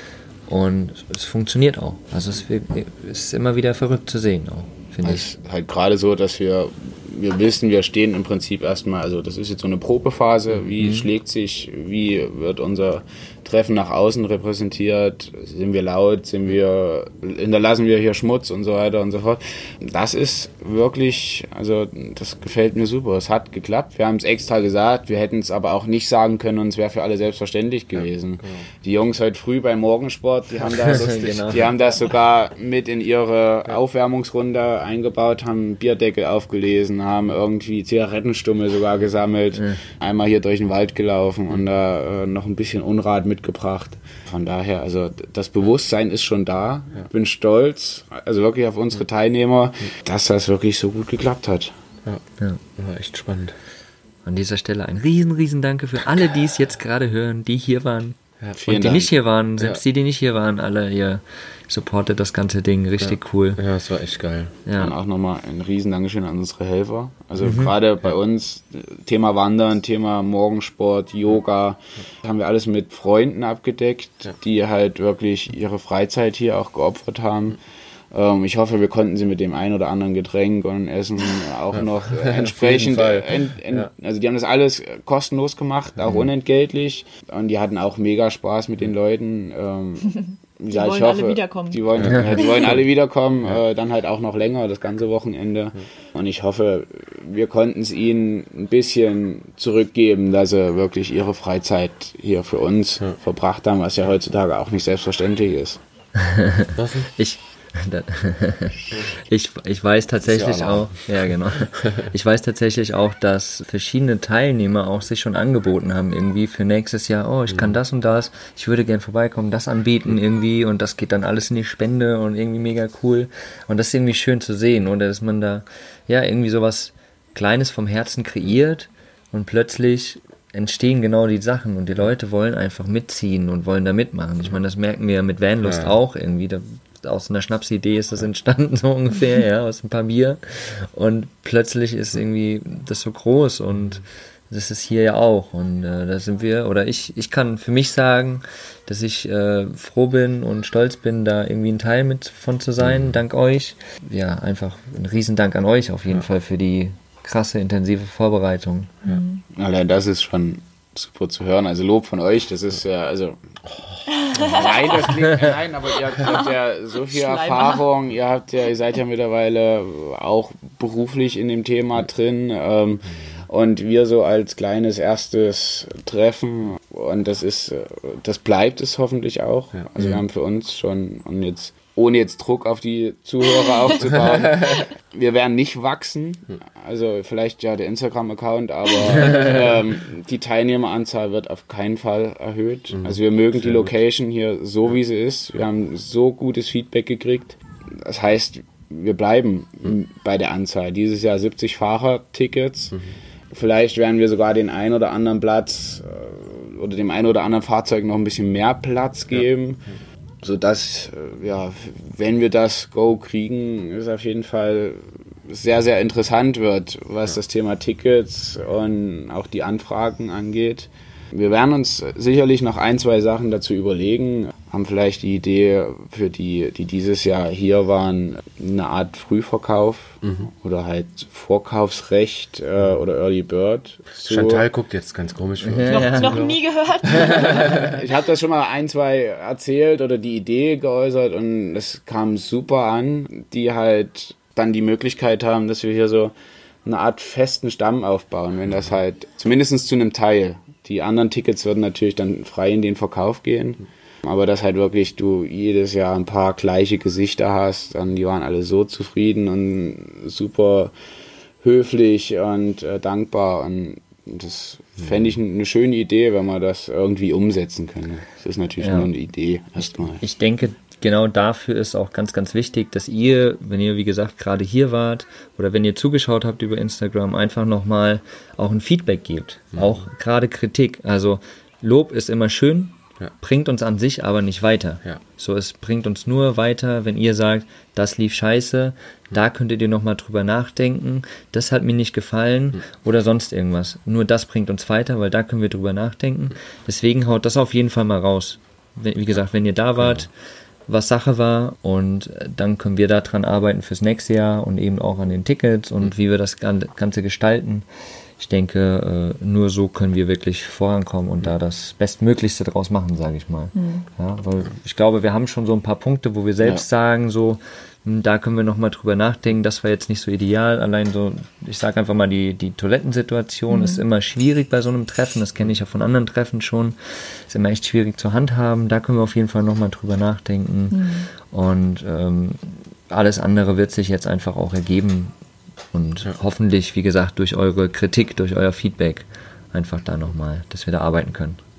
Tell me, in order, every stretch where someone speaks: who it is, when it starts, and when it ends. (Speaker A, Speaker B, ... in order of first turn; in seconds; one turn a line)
Speaker A: 0.5-5.2
Speaker B: 5.0-51.7
Speaker A: 10.8-11.1
Speaker A: 30.9-31.7
Speaker C: 30.9-31.2
Speaker C: 52.8-53.5
Speaker A: 54.2-63.6
Speaker B: 58.6-59.1
Speaker C: 63.0-64.6
Speaker A: 64.7-64.9
Speaker B: 64.8-77.6
Speaker A: 67.4-67.7
Speaker B: 78.1-105.8
Speaker C: 82.0-83.9
Speaker D: 90.7-91.8
Speaker C: 91.9-92.8
Speaker A: 92.0-92.4
Speaker A: 106.2-159.0
Speaker C: 106.7-107.1
Speaker C: 110.2-111.3
Speaker C: 117.5-117.8
Speaker C: 135.6-136.0
Speaker C: 152.8-153.2
Speaker D: 159.0-159.4
Speaker B: 159.5-163.4
Speaker D: 164.2-165.1
Speaker B: 164.3-203.0
Speaker D: 167.1-167.8
Speaker C: 184.1-184.8
Speaker C: 192.9-193.9
Speaker B: 203.5-209.8
Speaker B: 210.4-234.7
Speaker C: 230.2-230.5
Speaker C: 234.2-236.6
Speaker A: 235.6-236.4
Speaker D: 235.9-237.9
Speaker C: 237.1-237.9
Speaker B: 237.5-246.3
Speaker B: 246.8-260.9
Speaker B: 261.6-270.2
Speaker A: 268.8-269.1
Speaker A: 269.8-300.3
Speaker C: 279.7-280.0
Speaker C: 300.0-300.2
Speaker A: 300.9-307.8
Speaker A: 308.4-327.0
Speaker D: 313.7-314.1
Speaker D: 323.7-324.0
Speaker A: 327.5-335.3
Speaker D: 330.9-331.3
Speaker A: 335.9-341.6